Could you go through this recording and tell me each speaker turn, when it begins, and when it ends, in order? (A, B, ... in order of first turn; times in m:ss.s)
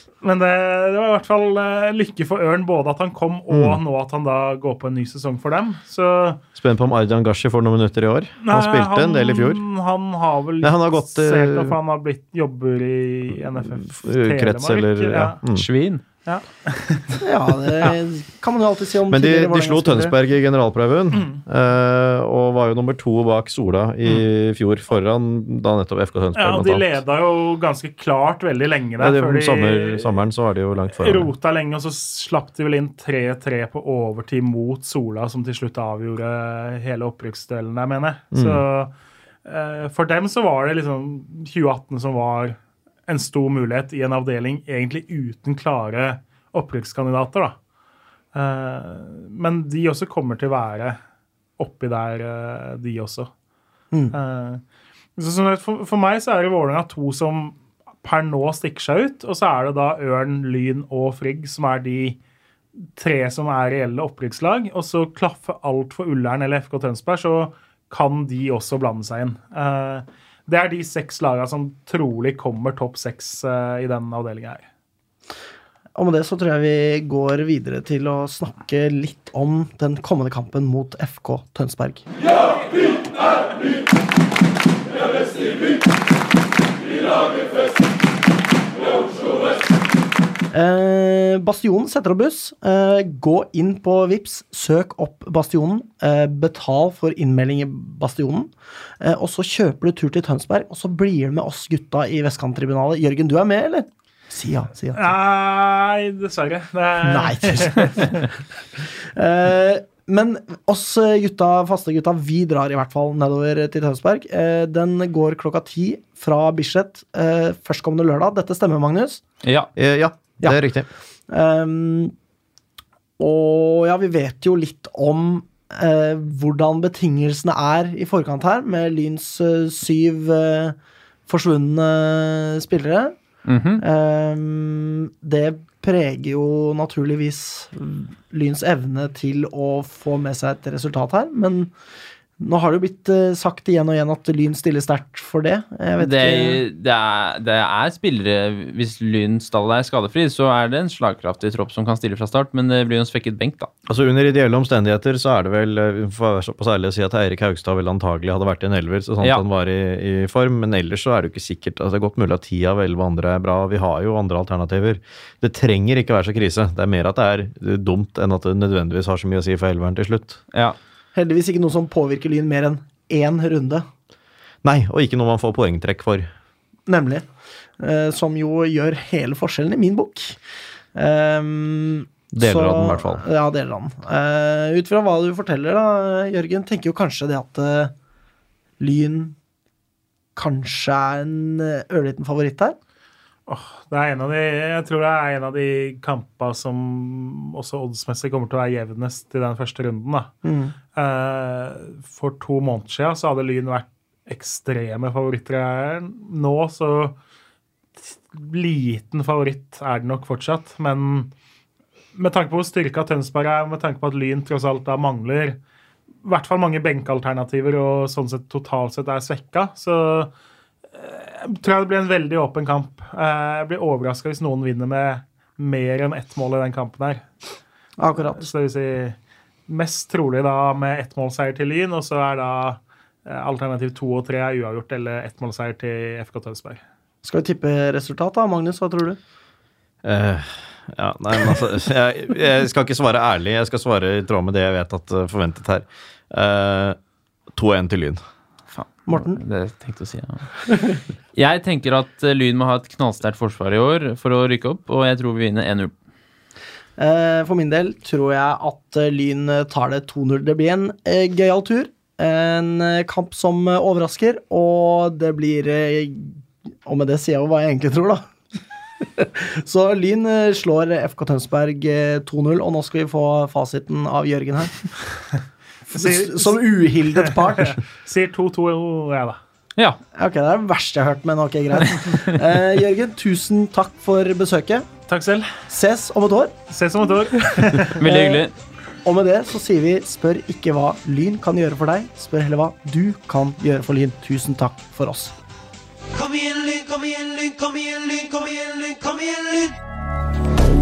0:00.2-0:06.4 A
0:03.5-0:03.8 B
0:06.6-0:09.6 B
0:08.4-0:15.4 A
0:10.6-0:11.8 B
0:13.6-0:15.7 B
0:15.5-0:16.0 C
0:16.2-0:17.2 A
0:17.2-0:20.2 D
0:19.1-0:27.0 B
0:21.1-0:21.4 A
0:26.3-0:30.2 A
0:29.0-0:31.3 B
0:31.0-0:38.9 A
0:38.3-0:38.6 B
0:39.4-0:47.6 A
0:48.3-0:51.0 A
0:51.6-0:53.3 A
0:54.1-0:54.6 A
0:55.2-1:02.2 A
1:03.0-1:14.6 A
1:16.0-1:22.0 D
1:30.5-1:38.5 D
1:39.0-1:45.1 D
1:44.9-1:48.2 A
1:47.0-1:59.2 D
1:59.4-1:59.7 C
1:59.8-2:00.9 B
2:01.3-2:02.1 D
2:03.2-2:10.8 D
2:11.3-2:13.1 D
2:13.4-2:13.8 C
2:13.8-2:21.7 D
2:22.4-2:26.6 D
2:26.0-2:33.7 C
2:33.9-2:50.4 B
2:51.1-2:53.8 D
2:54.6-2:56.3 B
2:56.9-2:57.3 D
2:57.8-3:00.4 D
3:00.9-3:07.9 D
3:02.3-3:03.2 B
3:08.8-3:09.4 D
3:10.4-3:12.8 D
3:13.5-3:20.3 A
3:20.4-3:20.7 D
3:20.9-3:27.2 A
3:28.0-3:31.3 A
3:32.1-3:35.6 A
3:36.2-3:40.3 A
3:41.0-3:47.3 A
3:48.0-3:48.4 D
3:48.3-3:49.2 A
3:49.7-3:56.8 A
3:57.2-3:59.2 D
4:00.0-4:07.0 B
4:07.5-4:08.2 B
4:08.7-4:15.9 C
4:09.1-4:09.4 D
4:17.0-4:28.3 D
4:29.2-4:35.0 D
4:35.9-4:37.8 D
4:35.9-4:39.4 A
4:40.2-4:44.9 D
4:45.1-4:45.5 A
4:45.7-4:46.5 D
4:46.7-4:48.0 A
4:48.0-4:48.4 D
4:48.0-4:48.5 C
4:49.0-4:55.3 D
4:56.1-4:59.8 E